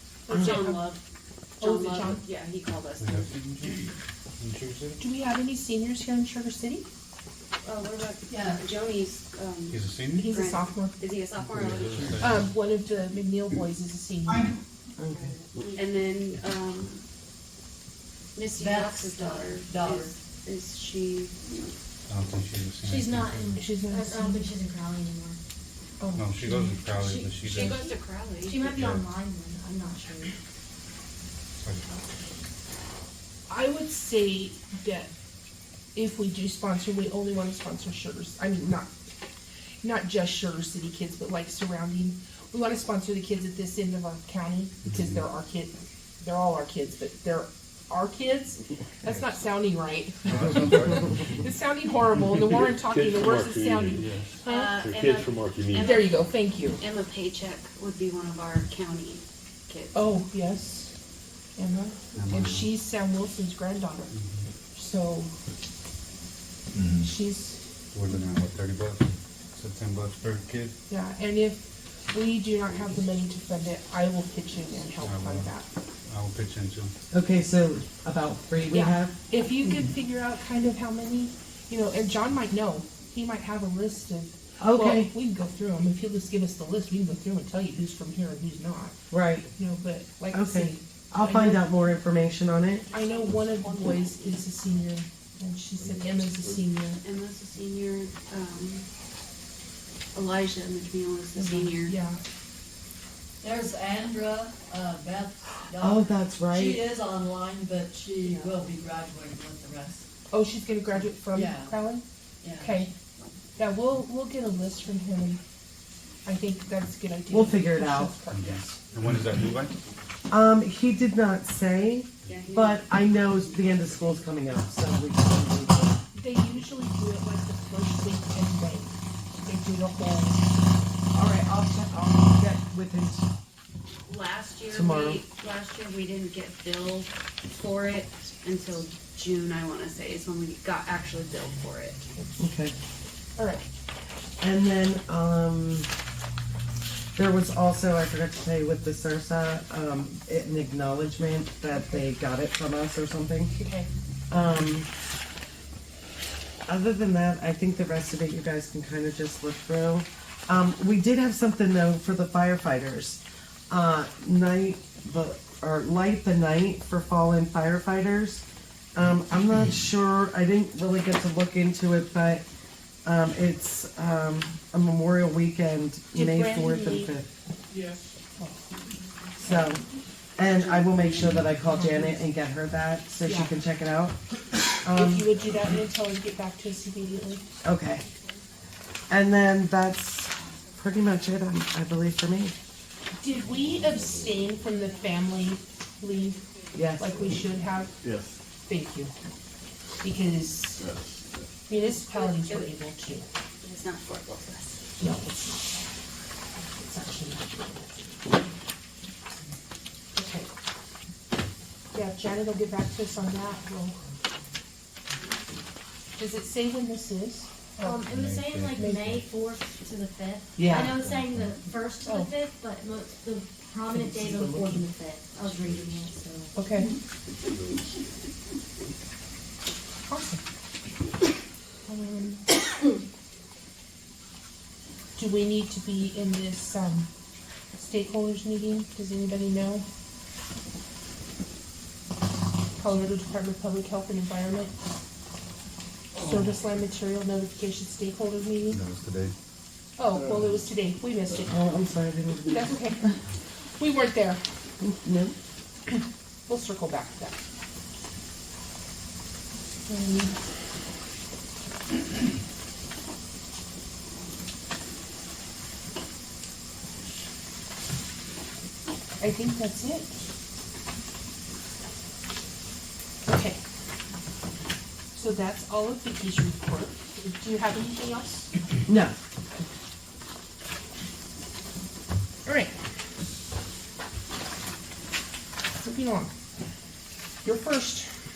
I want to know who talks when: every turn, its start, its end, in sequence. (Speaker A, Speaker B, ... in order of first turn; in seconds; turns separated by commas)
Speaker A: 0.3-0.9, Speaker B: 0.3-1.0, Speaker A: 1.6-2.2, Speaker B: 1.6-3.3, Speaker C: 3.0-5.0, Speaker A: 5.0-6.9, Speaker B: 7.6-12.2, Speaker D: 8.3-8.7, Speaker C: 9.7-10.4, Speaker A: 10.2-11.0, Speaker C: 11.4-12.5, Speaker A: 12.2-14.5, Speaker E: 15.0-15.4, Speaker B: 15.7-17.0, Speaker B: 18.4-21.7, Speaker D: 18.6-20.1, Speaker C: 22.1-23.7, Speaker F: 22.8-25.4, Speaker A: 23.6-24.5, Speaker A: 26.0-26.8, Speaker C: 26.1-27.8, Speaker F: 27.0-30.3, Speaker B: 27.4-28.8, Speaker C: 28.7-29.1, Speaker C: 31.6-32.0, Speaker A: 33.5-35.1, Speaker A: 36.0-38.9, Speaker A: 39.8-54.8, Speaker C: 50.2-51.3, Speaker G: 52.5-54.1, Speaker C: 54.0-54.4, Speaker B: 54.5-60.2, Speaker G: 54.7-56.0, Speaker A: 55.7-56.8, Speaker A: 59.9-60.9, Speaker A: 61.6-64.1, Speaker C: 62.1-62.7, Speaker C: 64.1-64.5, Speaker A: 64.7-65.3, Speaker A: 67.0-67.6, Speaker C: 67.9-70.8, Speaker A: 70.9-75.7, Speaker C: 75.0-75.5, Speaker C: 76.1-76.9, Speaker E: 77.1-79.2, Speaker A: 78.7-89.0, Speaker E: 84.6-85.1, Speaker E: 89.1-89.5, Speaker A: 89.5-91.7, Speaker E: 90.3-92.8, Speaker A: 92.9-97.0, Speaker B: 93.4-94.3, Speaker G: 95.8-96.6, Speaker B: 97.0-98.9, Speaker B: 100.2-102.0, Speaker A: 101.3-102.2, Speaker D: 103.4-110.1, Speaker E: 105.8-106.8, Speaker B: 108.2-108.5, Speaker A: 110.3-112.0, Speaker D: 111.3-111.8, Speaker D: 112.4-112.9, Speaker A: 112.6-112.9, Speaker A: 113.6-115.4, Speaker A: 116.2-118.8, Speaker E: 117.3-118.2, Speaker C: 118.3-119.8, Speaker E: 120.3-126.0, Speaker B: 122.3-123.2, Speaker A: 126.2-128.9, Speaker C: 129.2-129.4, Speaker A: 129.4-130.5, Speaker E: 131.1-133.3, Speaker B: 134.1-142.0, Speaker E: 134.7-135.2, Speaker E: 142.4-142.8, Speaker A: 143.4-143.7, Speaker E: 144.4-145.9, Speaker E: 147.2-153.6, Speaker A: 153.5-153.9, Speaker E: 154.3-154.9, Speaker E: 156.7-172.4, Speaker E: 173.1-177.3, Speaker A: 176.1-177.1, Speaker A: 178.4-178.8, Speaker A: 179.4-179.8, Speaker E: 179.4-179.8, Speaker E: 180.4-184.2, Speaker B: 180.9-181.3, Speaker A: 181.7-182.2, Speaker A: 183.2-183.5, Speaker E: 184.8-185.3, Speaker A: 184.9-187.4, Speaker E: 187.6-188.1, Speaker E: 189.1-192.6, Speaker A: 193.2-196.4, Speaker E: 196.7-197.2, Speaker A: 197.0-197.9, Speaker G: 198.0-198.4, Speaker A: 198.7-199.1, Speaker A: 200.0-200.8, Speaker G: 200.8-201.2, Speaker A: 201.7-203.3, Speaker B: 201.8-202.7, Speaker B: 203.6-204.8, Speaker A: 205.0-205.8, Speaker A: 206.7-208.3, Speaker A: 210.1-210.5, Speaker A: 211.9-214.0, Speaker A: 216.2-218.0, Speaker F: 217.8-226.6, Speaker C: 218.1-219.2, Speaker E: 220.6-221.0, Speaker A: 222.1-222.3, Speaker G: 225.6-226.2, Speaker A: 226.6-226.9, Speaker A: 230.1-230.4, Speaker A: 231.9-232.6, Speaker A: 235.2-237.1, Speaker A: 237.8-239.8, Speaker A: 242.8-244.7, Speaker A: 246.2-248.8, Speaker C: 248.7-249.3, Speaker A: 250.0-251.6, Speaker E: 251.5-252.7, Speaker A: 252.4-253.1, Speaker A: 253.8-254.4, Speaker E: 254.8-255.3, Speaker A: 255.9-257.4, Speaker A: 259.9-260.4, Speaker A: 269.2-270.1, Speaker A: 273.3-273.6, Speaker A: 275.1-278.5, Speaker E: 278.9-279.2, Speaker A: 282.5-282.7, Speaker A: 285.8-286.3, Speaker A: 287.4-288.1